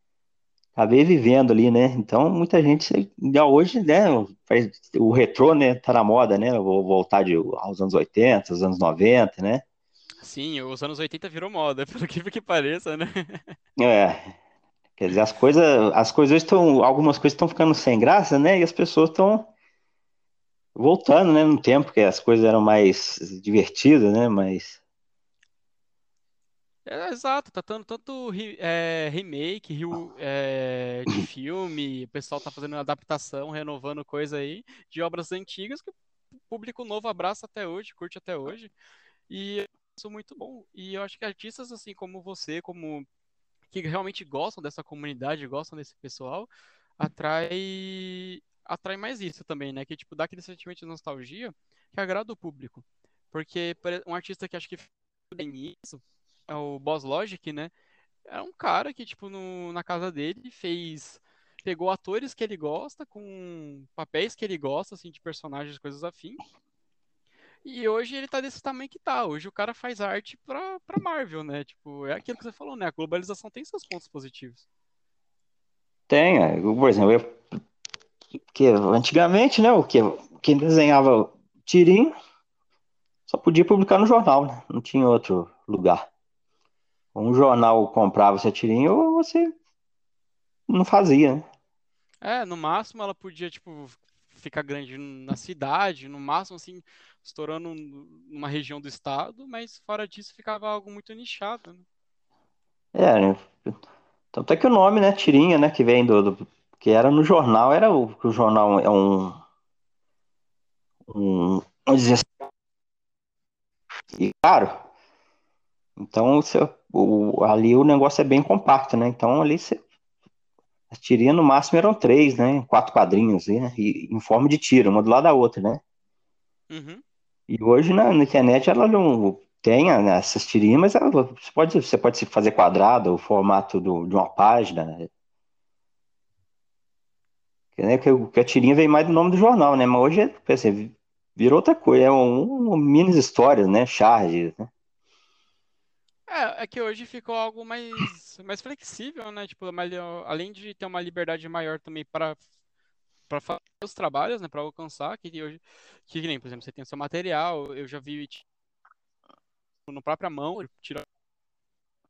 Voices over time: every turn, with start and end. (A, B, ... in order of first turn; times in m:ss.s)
0:00.8-0:09.6 A
0:10.2-0:13.6 B
0:13.8-0:14.4 A
0:15.0-0:19.5 A
0:20.7-0:24.8 A
0:26.8-0:35.9 B
0:36.5-0:38.7 B
0:39.3-0:43.1 B
0:43.7-0:46.5 B
0:47.0-0:57.7 B
0:58.2-1:06.4 B
1:07.6-1:14.6 B
1:16.1-1:17.5 A
1:18.5-1:22.1 A
1:23.3-1:26.1 A
1:27.1-1:29.5 A
1:30.7-1:31.4 A
1:32.2-1:41.8 B
1:42.9-1:43.8 A
1:44.3-1:49.4 A
1:51.1-1:52.3 A
1:54.1-1:54.8 A
1:56.0-1:59.8 A
2:00.9-2:05.8 A
2:06.7-2:07.0 B
2:07.5-2:15.1 A
2:17.8-2:24.7 A
2:26.3-2:32.4 B
2:33.3-2:38.4 B
2:39.9-2:41.0 B